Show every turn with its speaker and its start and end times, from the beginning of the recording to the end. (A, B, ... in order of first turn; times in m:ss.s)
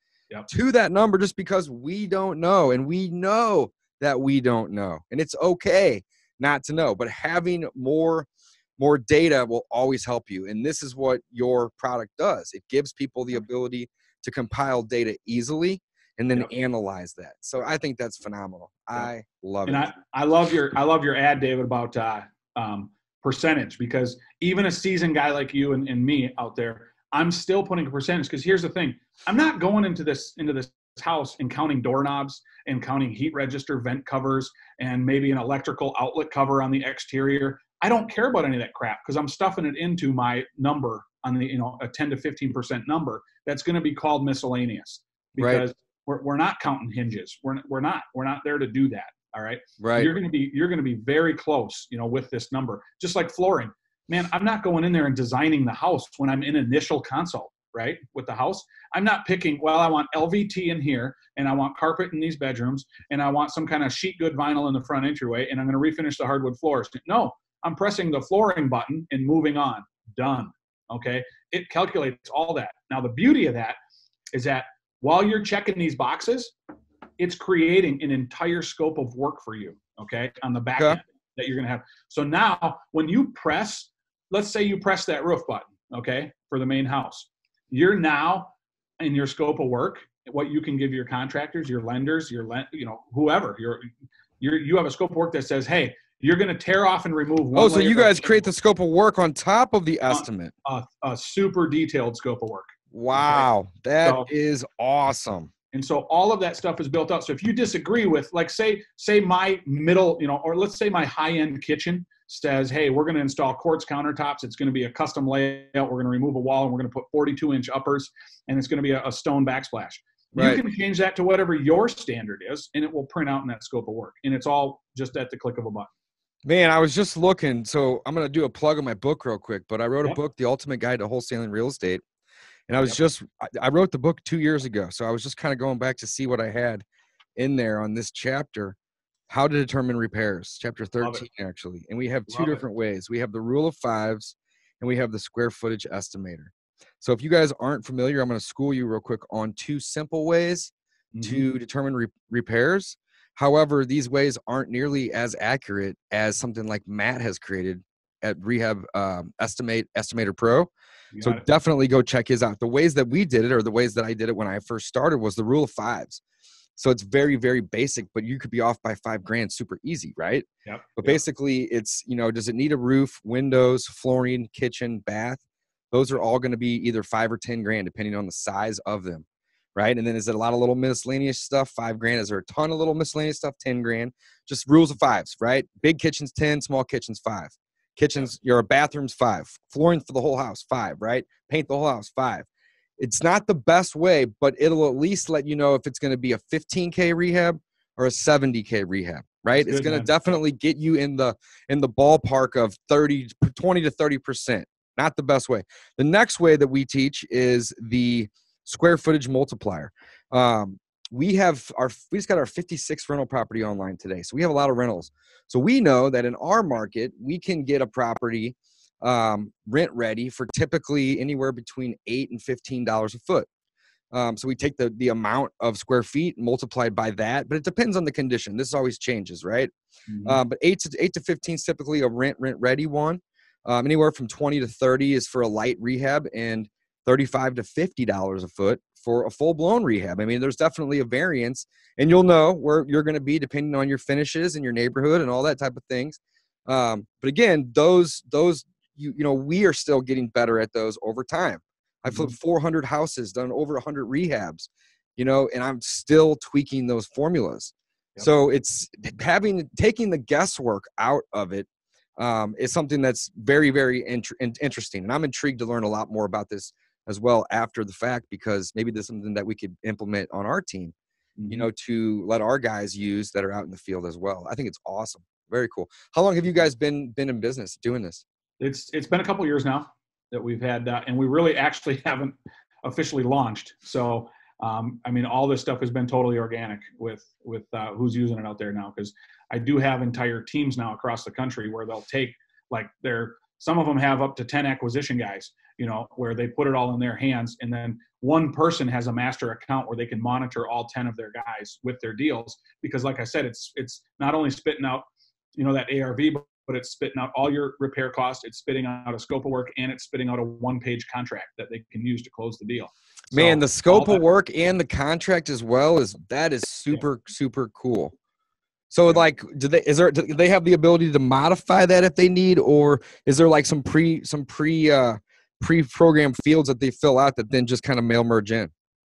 0:00.5-0:08.3 A
0:08.8-0:19.9 A
0:19.7-1:13.8 B
0:45.4-0:45.7 A
0:49.8-0:50.1 A
1:14.3-1:16.5 B
1:17.2-1:38.4 B
1:37.5-1:40.5 A
1:40.1-1:43.5 B
1:42.9-1:45.5 A
1:44.0-1:44.3 B
1:45.7-2:05.9 B
2:00.3-2:00.6 A
2:06.4-2:12.0 A
2:12.7-2:16.8 A
2:17.4-2:18.8 A
2:19.3-2:46.2 A
2:21.0-2:21.3 B
2:22.3-2:22.6 B
2:31.1-2:31.5 B
2:41.1-2:41.4 B
2:46.8-3:12.5 A
2:50.6-2:51.2 B
3:13.0-3:43.5 A
3:19.5-3:20.1 B
3:44.1-3:49.7 A
3:50.1-3:50.4 B
3:50.2-4:30.9 A
4:12.1-4:12.4 B
4:31.4-4:31.7 B
4:31.5-4:38.2 A
4:38.6-5:14.2 B
5:13.3-5:18.1 A
5:18.9-5:28.7 A